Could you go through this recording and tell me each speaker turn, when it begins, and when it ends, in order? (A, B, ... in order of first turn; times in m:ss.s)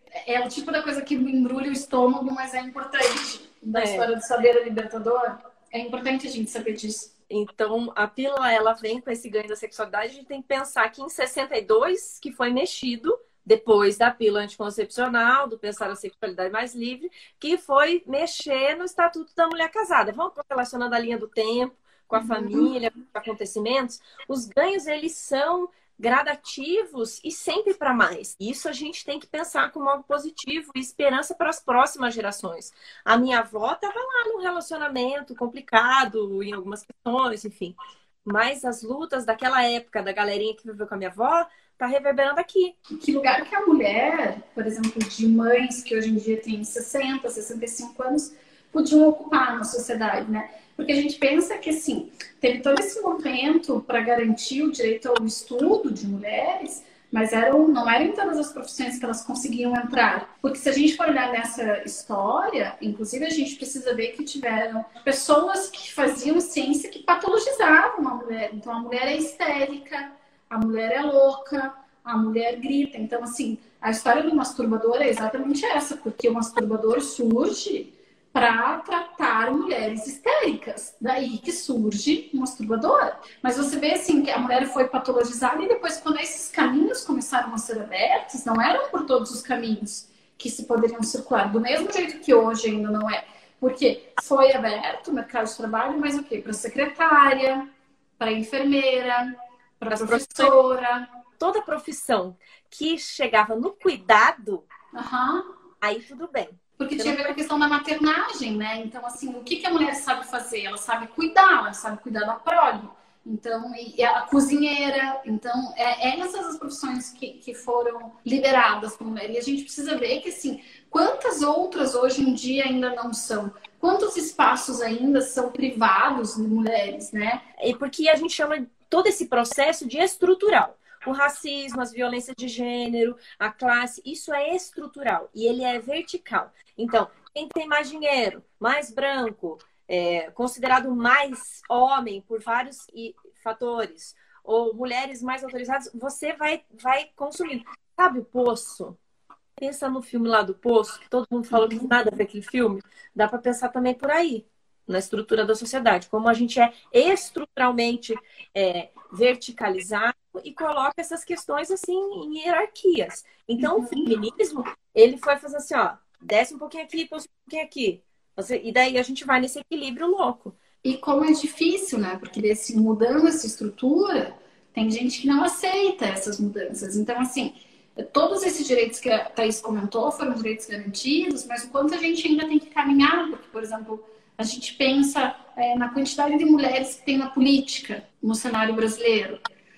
0:00.3-0:07.1 A
0:03.7-0:04.1 B
0:07.3-0:42.8 B
0:22.2-0:22.7 A
0:42.9-1:37.6 A
1:38.2-1:41.0 A
1:39.9-1:40.5 B
1:41.4-1:44.7 B
1:44.9-1:45.4 A
1:45.8-1:47.4 B
1:46.8-2:07.4 A
2:07.6-2:29.0 B
2:29.6-2:50.6 B
2:31.5-2:31.9 A
2:43.6-2:44.1 A
2:50.8-3:09.4 A